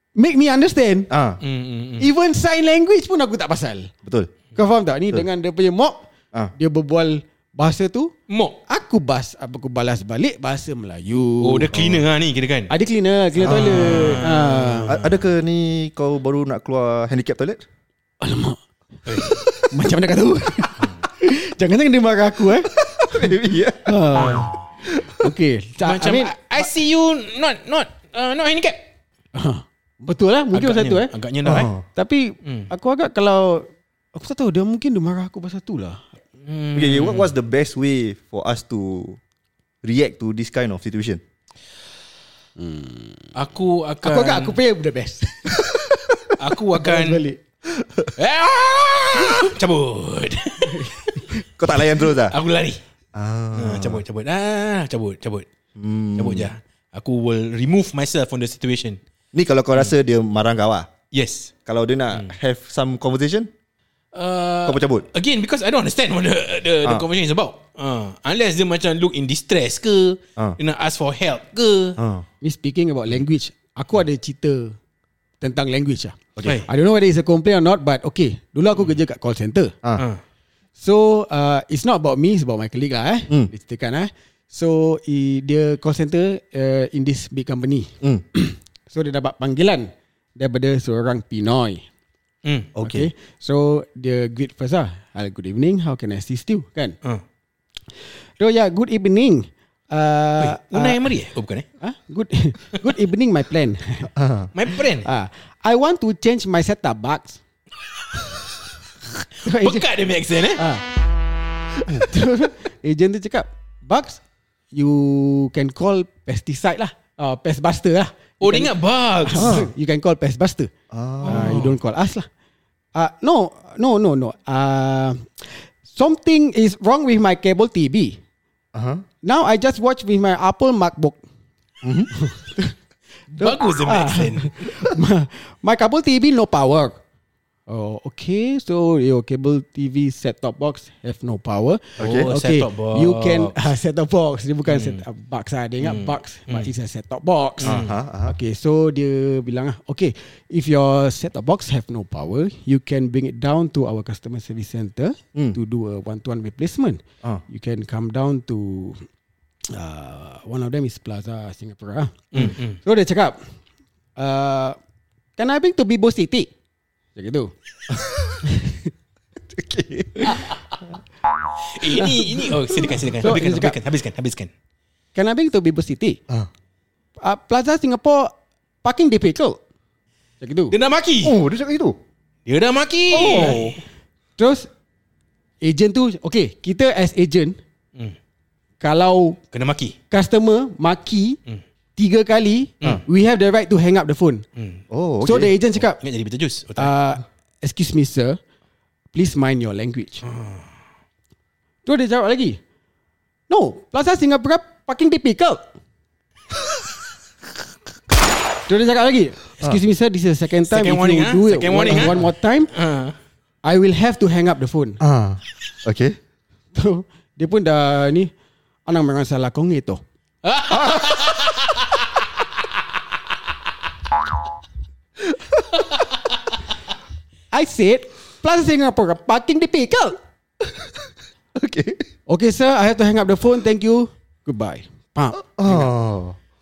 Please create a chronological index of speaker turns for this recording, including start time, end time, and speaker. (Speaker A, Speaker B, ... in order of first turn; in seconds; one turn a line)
Speaker A: 0.2-1.1
Speaker B: 1.1-1.4
Speaker C: 1.4-2.1
Speaker A: 2.0-3.9
Speaker B: 4.0-4.3
Speaker A: 4.5-6.0
Speaker A: 6.6-8.1
Speaker C: 8.3-8.6
Speaker A: 8.7-11.8
Speaker C: 11.4-12.7
Speaker B: 11.7-12.0
Speaker A: 12.7-15.0
Speaker C: 13.4-15.3
Speaker B: 13.4-14.2
Speaker B: 14.9-17.6
Speaker A: 18.2-23.3
Speaker C: 19.1-19.5
Speaker B: 22.7-25.2
Speaker A: 23.9-24.5
Speaker C: 24.1-24.6
Speaker A: 25.2-26.7
Speaker C: 25.8-28.8
Speaker A: 29.4-31.1
Speaker C: 30.5-31.7
Speaker B: 31.4-31.8
Speaker A: 31.9-36.0
Speaker C: 32.4-32.7
Speaker C: 36.4-37.3
Speaker B: 36.7-39.2
Speaker B: 39.8-41.2
Speaker A: 42.6-43.3
Speaker C: 43.4-44.6
Speaker A: 44.0-45.7
Speaker B: 45.7-46.2
Speaker C: 46.4-47.2
Speaker A: 46.8-47.4
Speaker B: 47.7-48.1
Speaker C: 48.2-51.3
Speaker A: 50.7-51.4
Speaker B: 51.6-52.4
Speaker C: 52.0-52.8
Speaker B: 53.1-54.0
Speaker C: 53.5-55.5
Speaker B: 55.8-56.5
Speaker C: 56.2-59.0
Speaker B: 59.3-60.9
Speaker C: 61.1-61.5
Speaker B: 61.7-63.5
Speaker C: 64.1-72.0
Speaker B: 64.7-65.1
Speaker B: 72.0-72.2
Speaker A: 72.4-74.8
Speaker A: 75.4-79.7
Speaker A: 80.8-91.9
Speaker C: 92.4-92.7
Speaker B: 92.8-93.1
Speaker A: 92.8-97.0
Speaker A: 98.4-101.1
Speaker C: 100.4-101.7
Speaker A: 101.8-104.1
Speaker B: 104.2-104.5
Speaker C: 104.5-105.1
Speaker A: 104.7-107.4
Speaker A: 109.4-109.9
Speaker C: 109.4-110.6
Speaker A: 110.5-110.8
Speaker A: 111.9-114.2
Speaker A: 114.7-120.7
Speaker C: 118.4-119.7
Speaker B: 119.4-119.7
Speaker B: 120.9-121.7
Speaker A: 121.2-122.3
Speaker C: 121.3-121.8
Speaker A: 123.0-128.2
Speaker B: 128.7-129.0
Speaker A: 129.2-131.2
Speaker B: 131.8-132.1
Speaker A: 132.1-132.7
Speaker A: 133.3-137.0
Speaker C: 133.4-134.7
Speaker A: 137.7-159.0
Speaker B: 142.0-142.3
Speaker C: 142.0-143.6
Speaker C: 144.7-145.0
Speaker C: 145.8-146.7
Speaker C: 147.6-147.9
Speaker B: 147.6-148.4
Speaker A: 159.7-162.2
Speaker C: 162.3-162.8
Speaker A: 162.8-163.4
Speaker A: 164.2-164.8
Speaker A: 165.4-166.5
Speaker A: 167.2-167.5
Speaker B: 167.9-168.4
Speaker A: 168.4-168.9
Speaker B: 169.5-170.4
Speaker C: 171.7-174.5
Speaker A: 171.9-172.5
Speaker A: 173.2-173.8
Speaker A: 175.2-176.2
Speaker A: 177.2-178.3
Speaker A: 178.8-179.6
Speaker A: 180.4-180.7
Speaker C: 180.7-181.4
Speaker B: 181.2-182.0
Speaker C: 182.5-183.7
Speaker A: 183.1-183.8
Speaker B: 183.2-183.8
Speaker A: 184.4-184.7
Speaker A: 185.6-187.6
Speaker A: 188.8-189.4
Speaker C: 189.5-190.0
Speaker A: 190.1-191.4
Speaker A: 192.0-194.4
Speaker C: 194.6-194.8
Speaker B: 194.9-195.5
Speaker A: 195.2-196.0
Speaker C: 195.8-196.9
Speaker A: 196.8-198.4
Speaker A: 199.1-200.2
Speaker C: 200.2-200.7
Speaker A: 201.8-202.6
Speaker A: 203.5-205.6
Speaker A: 208.7-212.7
Speaker C: 210.7-213.2
Speaker A: 213.6-215.0
Speaker B: 215.0-216.2
Speaker A: 216.8-218.3
Speaker A: 218.9-220.0
Speaker C: 220.4-222.2
Speaker B: 220.7-221.2
Speaker B: 225.3-225.6
Speaker A: 227.5-230.2
Speaker B: 230.7-230.9
Speaker B: 231.6-232.0
Speaker A: 232.3-235.9
Speaker B: 235.4-236.4